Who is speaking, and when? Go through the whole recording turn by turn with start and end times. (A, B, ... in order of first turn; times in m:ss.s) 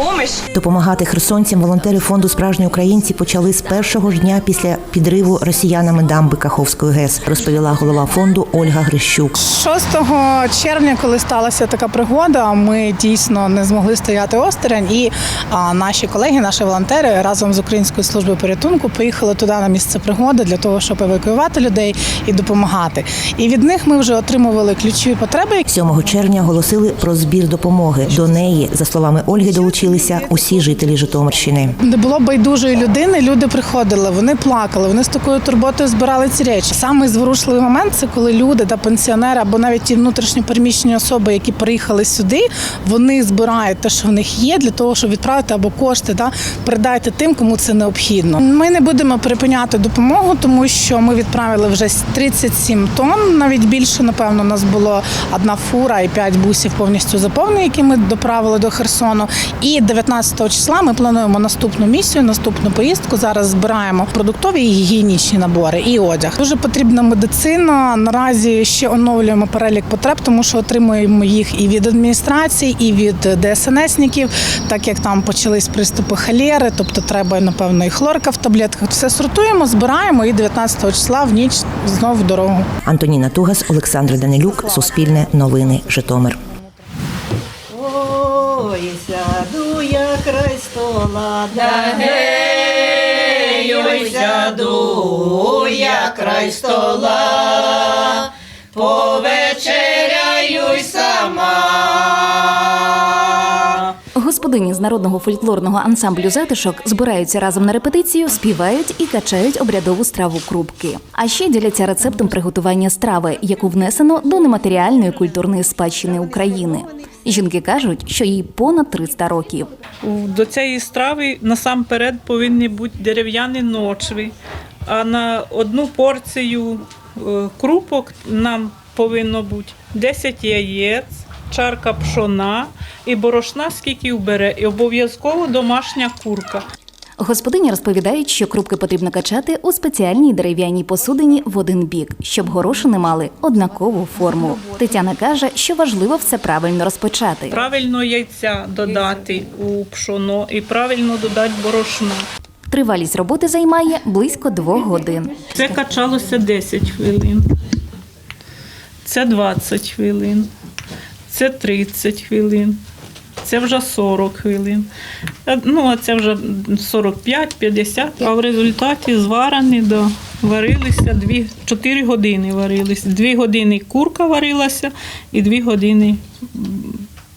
0:00.5-0:09.3 A
0:09.4-0:25.6 B
0:25.7-0:31.8 A
0:29.4-1:22.6 B
1:22.8-1:26.4 A
1:27.7-1:32.2 C
1:33.5-1:37.4 C
1:38.7-1:41.3 C
1:44.2-1:59.7 D
2:00.0-2:04.3 E
2:04.9-2:16.6 E
2:17.2-2:27.6 D
2:27.5-2:32.2 E
2:32.7-2:35.4 D
2:35.5-2:37.5 E
2:39.0-2:40.5 E
2:41.3-2:42.8 E
2:43.4-2:44.9 E
2:45.5-2:57.0 E